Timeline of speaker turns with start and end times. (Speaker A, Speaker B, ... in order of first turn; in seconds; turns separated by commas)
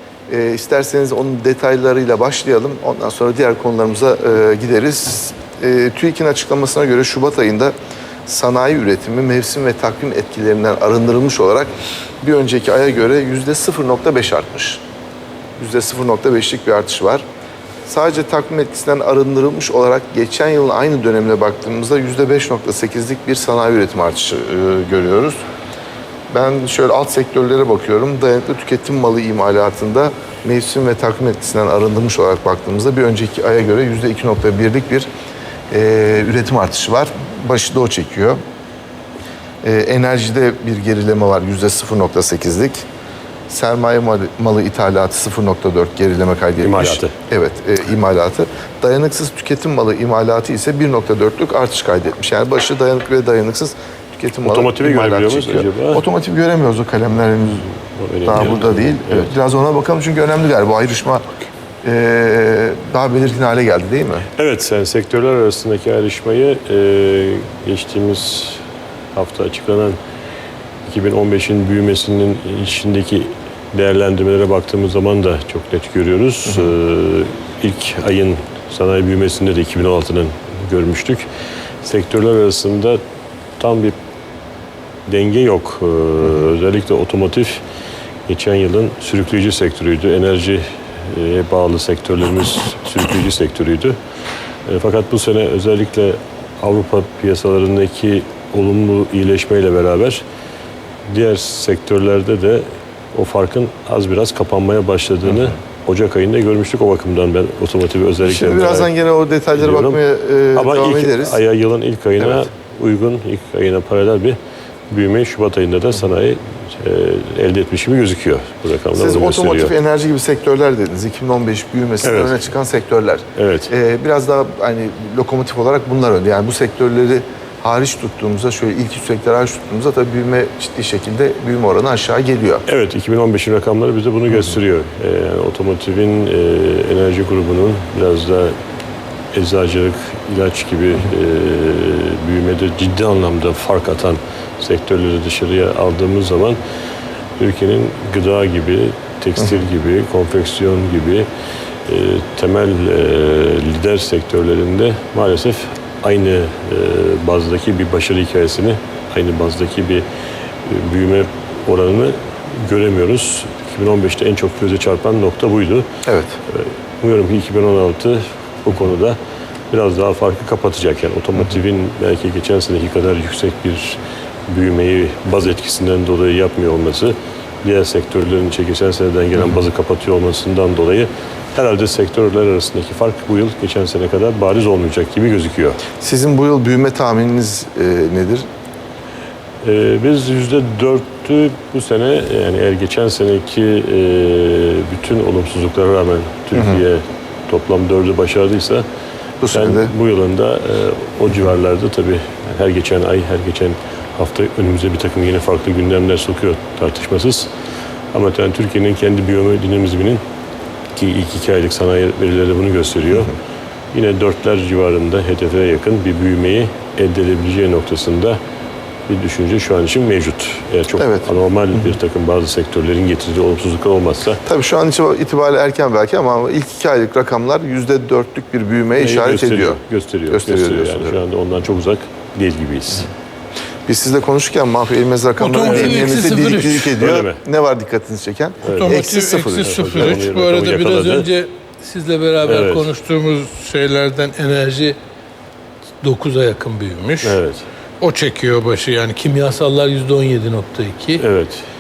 Speaker A: 0.3-7.7, Speaker A: 8.3-14.8, Speaker A: 15.6-17.2, Speaker A: 17.9-25.4, Speaker A: 26.3-35.1, Speaker A: 35.7-38.4, Speaker A: 39.6-42.8, Speaker A: 43.5-57.7, Speaker B: 46.6-47.1, Speaker B: 54.5-56.0, Speaker B: 57.7-59.3, Speaker A: 58.2-61.2, Speaker A: 61.8-64.2, Speaker B: 64.4-68.6, Speaker B: 69.1-70.0, Speaker B: 70.8-81.3, Speaker B: 81.8-83.0, Speaker B: 83.6-84.0, Speaker B: 85.1-87.6, Speaker B: 88.3-94.0, Speaker B: 94.7-100.2, Speaker B: 101.1-108.9, Speaker A: 108.2-111.4, Speaker B: 109.5-110.0, Speaker B: 110.5-114.4, Speaker B: 114.9-119.8, Speaker A: 119.0-132.6, Speaker B: 122.0-122.4, Speaker B: 123.4-123.7, Speaker B: 132.7-138.5, Speaker B: 139.3-146.6, Speaker B: 147.4-151.3, Speaker B: 151.9-160.1, Speaker B: 160.7-165.9, Speaker A: 166.1-166.4, Speaker B: 166.5-169.2, Speaker B: 169.7-185.8, Speaker A: 186.0-188.5, Speaker B: 189.6-198.8, Speaker A: 196.6-196.8, Speaker A: 199.4-199.9, Speaker B: 199.5-207.5, Speaker B: 208.1-210.2, Speaker B: 210.9-213.3, Speaker B: 213.9-218.4, Speaker B: 219.1-224.4, Speaker A: 221.0-221.3, Speaker A: 224.5-231.2, Speaker B: 229.0-233.1, Speaker A: 233.9-239.9, Speaker C: 235.4-237.0, Speaker B: 235.6-237.4, Speaker B: 238.6-239.1, Speaker C: 238.7-245.0, Speaker B: 239.6-241.3, Speaker B: 242.4-242.9, Speaker C: 246.0-247.4, Speaker B: 247.2-247.7, Speaker C: 248.0-251.2, Speaker B: 251.2-251.7